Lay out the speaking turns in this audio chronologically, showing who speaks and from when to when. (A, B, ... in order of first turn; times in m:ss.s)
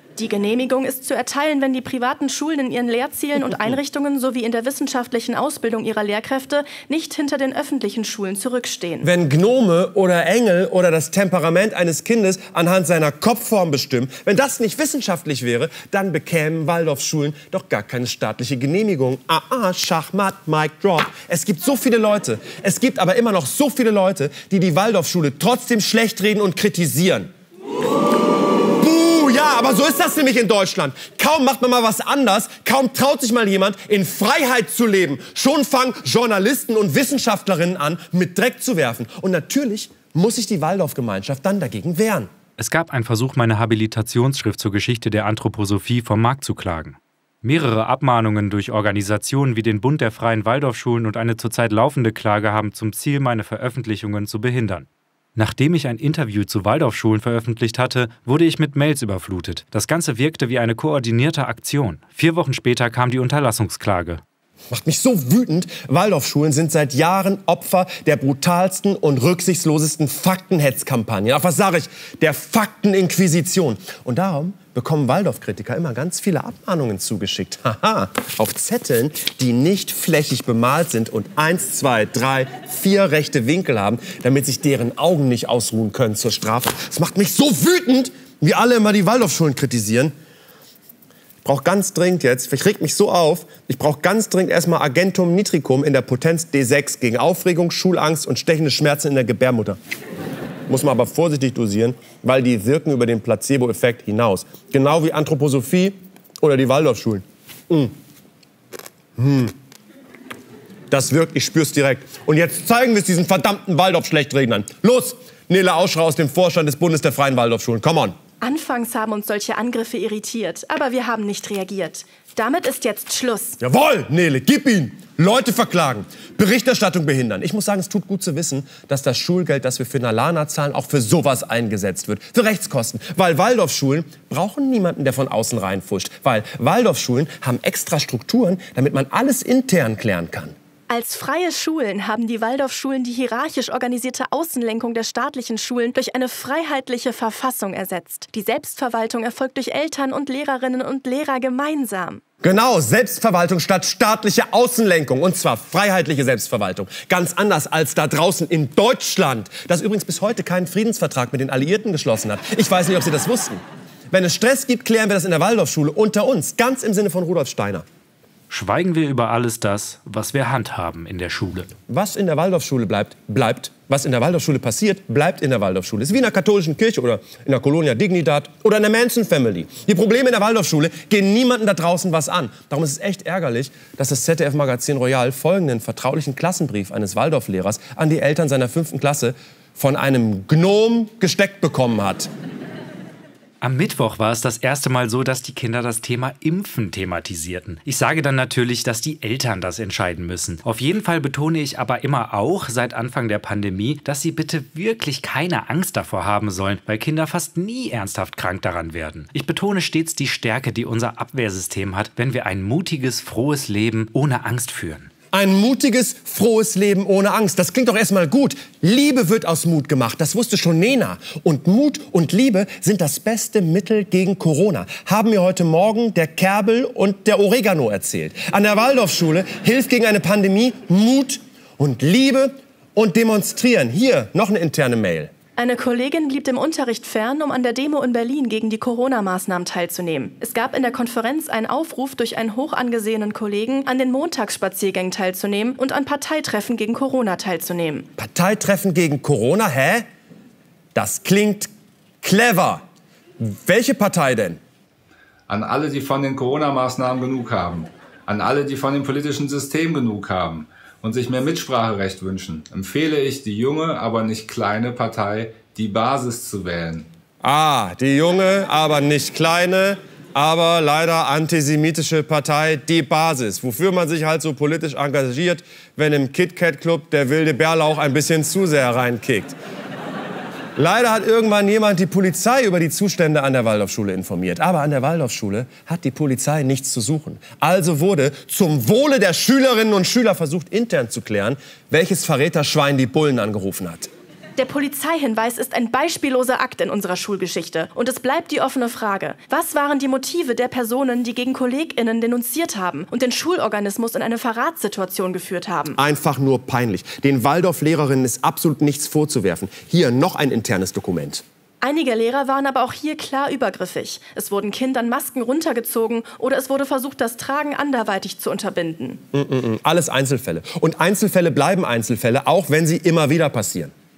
0:00.2-0:09.1 A
0:09.0-0:27.3 B
0:28.8-0:42.3 B
0:42.6-1:04.2 C
1:04.7-1:30.1 B
1:31.4-1:39.8 B
1:40.7-1:47.9 B
1:49.2-1:49.5 B
1:50.9-1:58.2 B
1:58.4-2:03.6 A
2:03.6-2:20.5 B
2:20.9-2:32.2 A
2:32.4-2:47.8 B
2:48.5-2:51.7 C
2:51.9-3:12.3 B
3:13.6-3:35.1 C
3:35.3-3:55.3 B
3:55.6-4:08.1 A
4:08.2-4:10.1 B
4:10.9-4:11.7 B
4:12.2-4:12.8 B
4:13.4-4:14.6 B
4:15.5-4:27.1 D
4:27.4-4:39.6 B
4:40.8-4:54.1 B
4:54.6-5:06.0 A
5:06.0-5:11.4 B
5:11.8-5:19.2 A
5:19.3-5:23.9 B